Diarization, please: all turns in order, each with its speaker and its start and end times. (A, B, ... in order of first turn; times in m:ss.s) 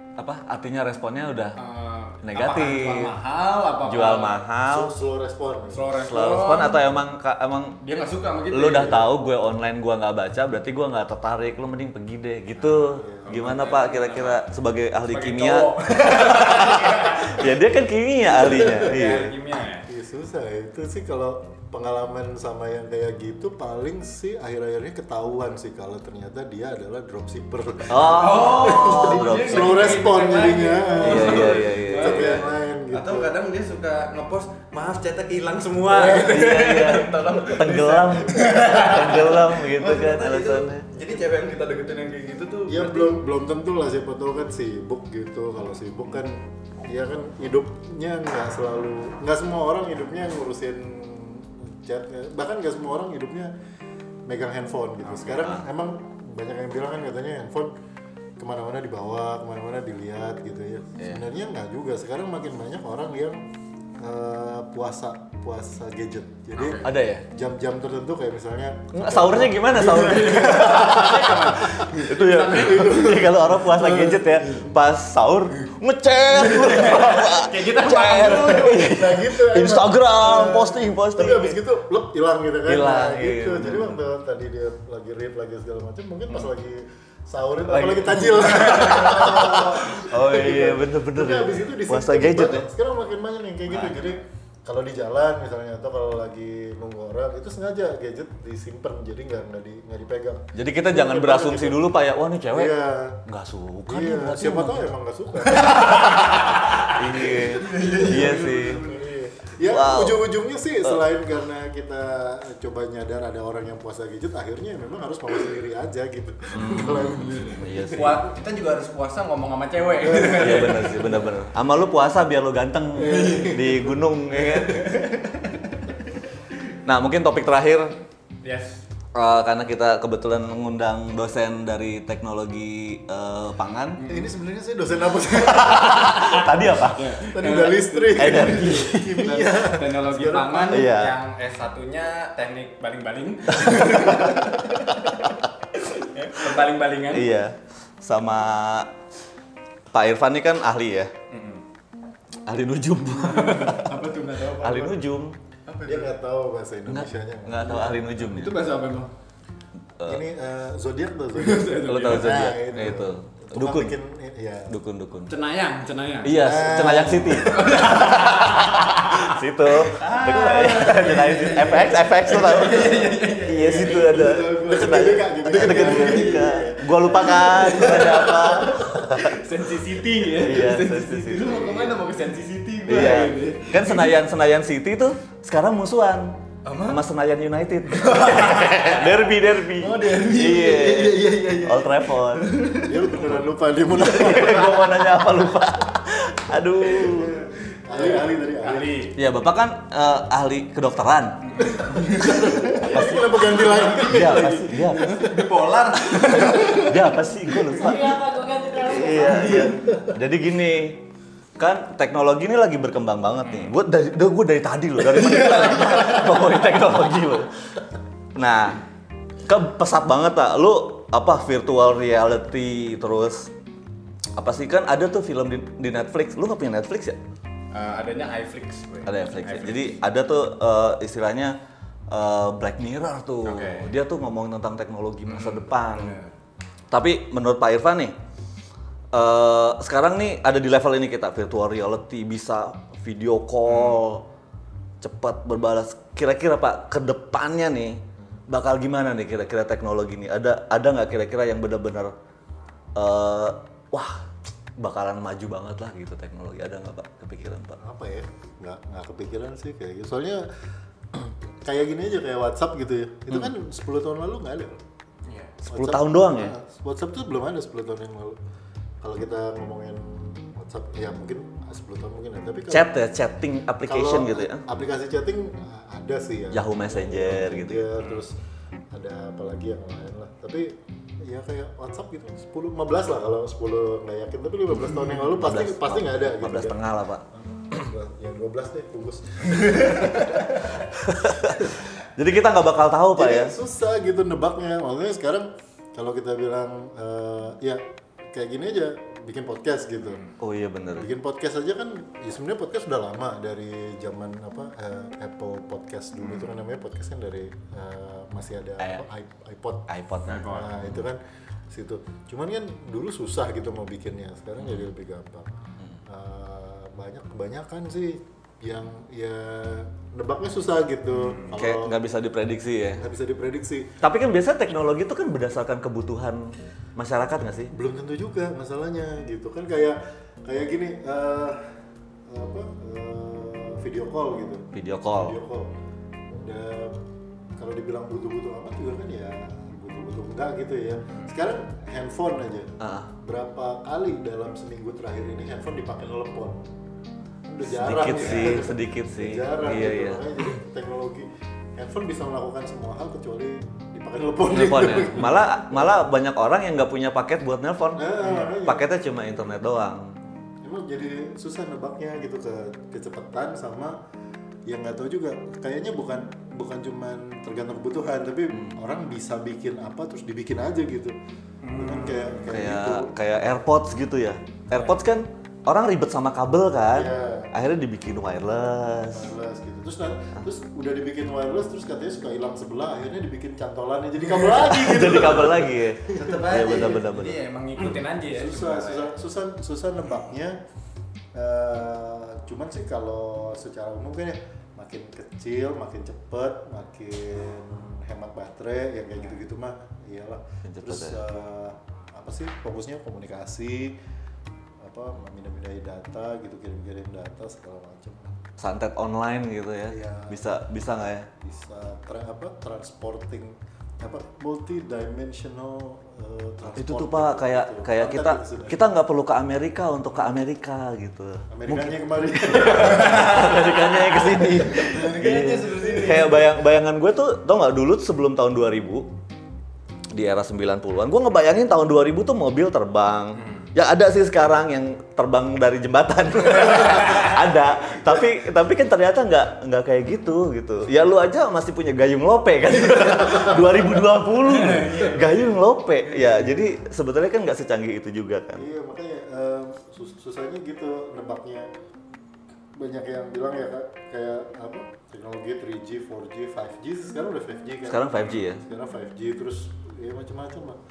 0:00.2-0:01.6 A
0:01.6-0:04.4 B
0:02.2-0:03.2 A
0:03.8-0:04.9 A
0:04.6-0:05.9 C
0:05.7-0:06.8 B
0:06.0-0:07.8 A
0:07.8-0:09.1 B
0:08.5-0:19.4 A
0:12.6-0:14.5 B
0:13.0-0:13.4 C
0:15.1-0:17.6 B
0:18.3-0:19.9 B
0:18.4-0:19.3 C
0:19.8-0:33.3 C
0:27.9-0:30.0 A
0:28.0-0:43.2 B
0:31.0-0:32.4 A
0:35.9-0:40.8 A
0:42.7-0:53.5 C
0:54.2-0:57.7 C
0:55.0-0:55.6 A
0:58.4-1:03.4 C
1:01.0-1:01.2 A
1:04.0-1:11.9 C
1:06.6-1:06.9 B
1:06.8-1:07.2 A
1:08.9-1:21.6 A
1:09.8-1:13.3 B
1:12.5-1:14.4 C
1:13.8-1:14.7 B
1:16.3-1:18.9 B
1:18.1-1:41.8 C
1:22.6-1:24.0 A
1:27.6-1:32.7 A
1:33.6-1:34.1 A
1:40.5-1:44.9 A
1:42.5-1:43.2 C
1:43.9-1:46.4 C
1:45.6-1:49.5 B
1:45.7-1:48.8 A
1:47.9-1:57.7 C
1:49.6-1:50.2 A
1:56.5-1:58.2 A
1:57.9-2:01.2 B
2:00.0-2:01.1 C
2:00.2-2:04.9 A
2:03.0-2:04.0 C
2:03.0-2:03.6 B
2:04.6-2:05.2 B
2:06.8-2:08.0 A
2:08.4-2:08.8 B
2:09.1-2:14.0 A
2:14.0-2:14.3 B
2:14.0-2:16.4 C
2:15.3-2:17.6 A
2:16.8-2:27.3 B
2:17.2-2:20.8 C
2:18.1-2:19.5 A
2:20.6-2:21.1 A
2:23.7-2:24.4 A
2:27.1-2:28.9 A
2:29.9-2:31.1 A
2:31.3-2:31.6 B
2:32.4-2:34.0 A
2:33.2-2:35.0 B
2:34.6-2:35.4 A
2:35.7-2:36.1 B
2:35.8-2:38.0 C
2:36.8-2:38.6 A
2:37.6-2:39.1 B
2:40.0-2:44.8 C
2:41.3-2:42.6 B
2:41.8-2:43.9 A
2:44.7-2:45.3 A
2:45.3-2:46.5 B
2:46.2-2:59.4 A
2:46.3-2:48.0 C
2:47.3-2:54.2 B
2:52.6-2:59.2 C
2:55.5-2:56.5 B
2:57.3-3:04.2 B
3:00.3-3:01.9 A
3:02.8-3:12.5 A
3:06.6-3:07.0 B
3:07.9-3:13.2 B
3:12.8-3:15.1 C
3:13.2-3:17.3 A
3:16.9-3:19.1 C
3:17.9-3:19.2 B
3:19.1-3:25.1 A
3:21.5-3:27.1 B
3:21.9-3:25.6 C
3:26.1-3:26.8 C
3:26.4-3:28.2 A
3:27.7-3:29.7 D
3:28.8-3:31.0 A
3:29.2-3:29.8 B
3:31.6-3:37.5 A
3:33.4-3:33.7 B
3:35.0-3:36.6 B
3:38.3-3:38.8 A
3:39.5-3:43.5 A
3:44.4-3:47.2 A
3:47.7-3:49.9 B
3:49.0-3:51.6 A
3:52.1-3:56.2 A
3:53.4-3:53.9 B
3:55.2-3:56.3 B
3:56.9-3:58.2 A
3:59.1-4:04.2 A
4:03.6-4:04.0 B
4:05.0-4:12.1 A
4:12.9-4:17.8 A
4:17.8-4:20.5 C
4:21.1-4:24.8 C
4:25.2-4:25.6 B
4:25.6-4:26.6 A
4:25.7-4:28.4 C
4:29.0-4:32.9 C
4:32.7-4:34.6 A
4:33.8-4:38.3 C
4:36.5-4:37.9 A
4:38.0-4:38.2 B
4:38.9-4:46.8 C
4:44.7-4:47.2 A
4:47.4-4:51.8 C
4:51.1-4:53.5 A
4:53.1-5:00.2 C
5:00.0-5:00.3 B
5:00.4-5:01.1 A
5:01.0-5:09.9 C
5:06.2-5:06.5 B
5:08.8-5:09.0 A
5:09.9-5:11.0 A
5:10.2-5:10.7 B
5:10.4-5:15.5 C
5:14.6-5:14.9 A
5:16.0-5:22.0 C
5:21.1-5:21.5 B
5:21.5-5:23.0 A
5:23.0-5:23.9 C
5:24.0-5:27.7 A
5:27.7-5:31.7 C
5:32.3-5:35.7 C
5:34.7-5:35.4 A
5:36.3-5:37.0 C
5:37.6-5:46.6 C
5:42.8-5:43.1 A
5:47.4-5:55.9 C
5:47.6-5:50.4 A
5:54.5-6:00.1 A
5:58.0-5:58.9 C
5:58.2-5:58.6 B
6:00.6-6:04.0 C
6:04.7-6:11.2 C
6:11.6-6:12.5 B
6:11.8-6:13.1 C
6:12.5-6:19.3 A
6:16.9-6:17.5 C
6:19.1-6:26.9 C
6:24.3-6:25.6 B
6:24.5-6:27.4 A
6:26.1-6:29.2 B
6:28.3-6:30.6 C
6:31.3-6:44.0 C
6:40.6-6:41.2 A
6:44.8-6:48.4 C
6:48.6-6:51.3 A
6:49.9-6:50.5 C
6:51.4-6:58.9 C
6:56.6-7:02.0 A
7:01.5-7:06.4 C
7:02.5-7:09.1 A
7:02.8-7:03.6 B
7:04.3-7:06.5 B
7:10.1-7:28.6 A
7:13.3-7:13.7 B
7:16.9-7:17.2 B
7:23.1-7:23.6 C
7:24.4-7:25.5 B
7:26.0-7:26.7 C
7:28.6-7:31.7 C
7:32.8-7:40.8 C
7:37.8-7:38.6 A